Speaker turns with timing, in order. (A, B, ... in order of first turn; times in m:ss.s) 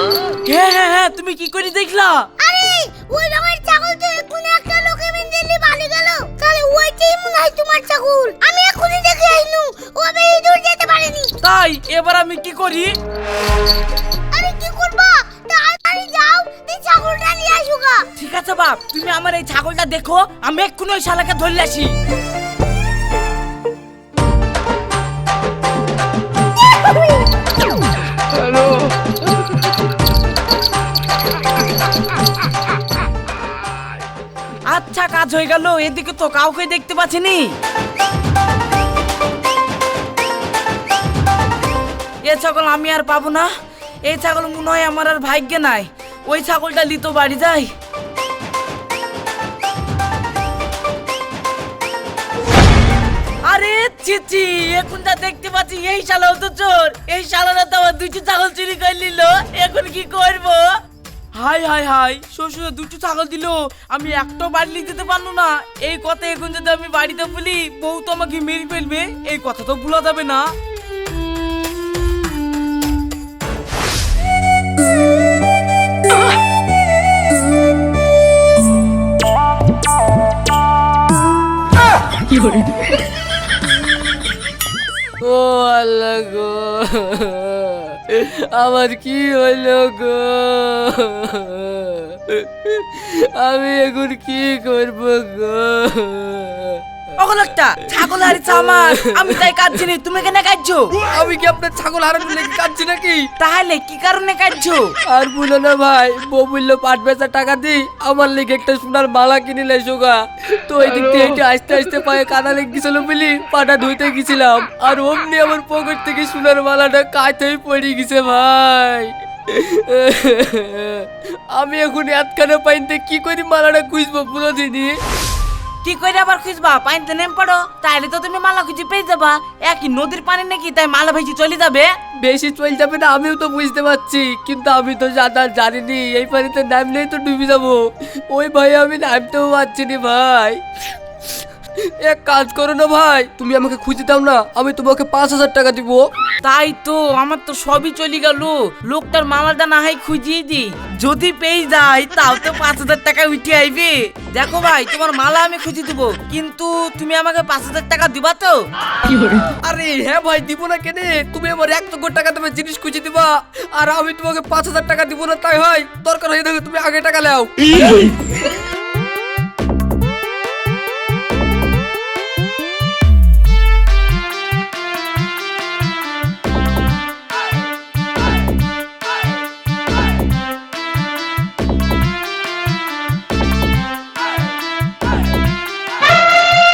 0:00.4-0:02.3 A
0:02.4-0:11.3 B
0:11.4-0:12.9 A
0:14.3-0:18.0 B
0:18.2-0:21.9 A
0:34.7-0:37.5 A
0:42.2-0:43.5 A
0:44.1-0:47.7 A
0:53.5-1:00.7 A
1:01.4-1:10.5 A
1:25.2-1:36.8 C
1:37.2-1:40.9 A
1:41.1-1:43.2 C
1:43.4-1:44.9 A
1:45.1-2:05.0 C
2:05.8-2:11.9 A
2:12.3-2:17.8 C
2:18.3-2:20.6 C
2:22.1-2:26.0 C
2:26.4-2:38.6 A
2:39.7-2:47.5 C